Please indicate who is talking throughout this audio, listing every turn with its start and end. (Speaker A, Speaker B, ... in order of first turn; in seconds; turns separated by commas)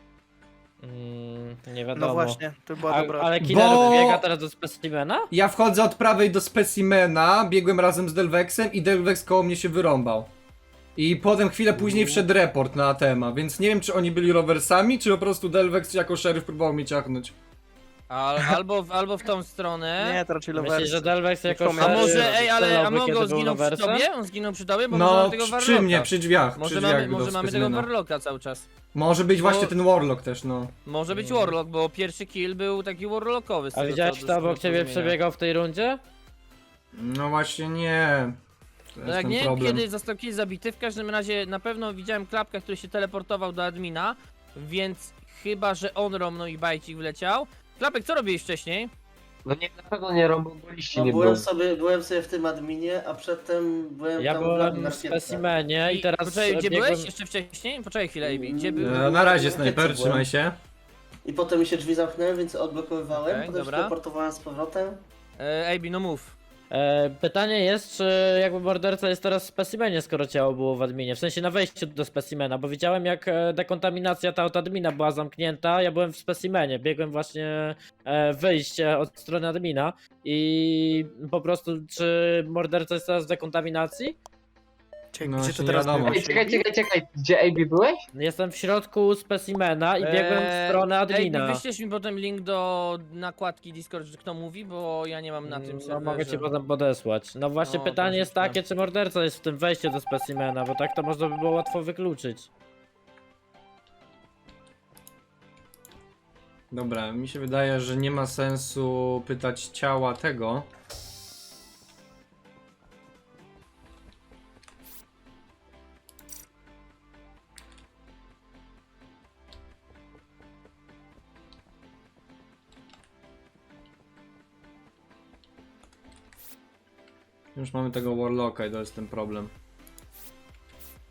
Speaker A: 0.8-5.3, Speaker B: 1.9-3.5, Speaker C: 3.4-4.2, Speaker C: 5.3-10.3, Speaker C: 10.9-17.3, Speaker A: 11.8-12.2, Speaker D: 18.1-20.2, Speaker B: 20.0-22.3, Speaker A: 20.5-24.0, Speaker D: 21.8-28.7, Speaker C: 24.9-27.9, Speaker C: 28.9-30.7, Speaker D: 29.4-29.7, Speaker D: 30.9-35.1, Speaker A: 31.1-31.6, Speaker A: 33.7-36.0, Speaker C: 36.9-38.4, Speaker C: 39.0-39.8, Speaker D: 39.0-48.9, Speaker E: 49.4-51.4, Speaker F: 50.9-55.4, Speaker A: 54.2-57.1, Speaker D: 55.9-59.0, Speaker F: 58.2-60.2, Speaker C: 58.8-60.5, Speaker F: 61.2-65.0, Speaker D: 63.1-63.9, Speaker D: 65.4-66.3, Speaker A: 66.7-84.2, Speaker B: 85.1-86.7, Speaker C: 85.2-86.2, Speaker E: 86.0-88.0, Speaker A: 88.1-91.6, Speaker D: 90.0-96.5, Speaker A: 95.5-102.5, Speaker D: 97.6-98.6, Speaker C: 106.7-110.7, Speaker C: 127.5-129.5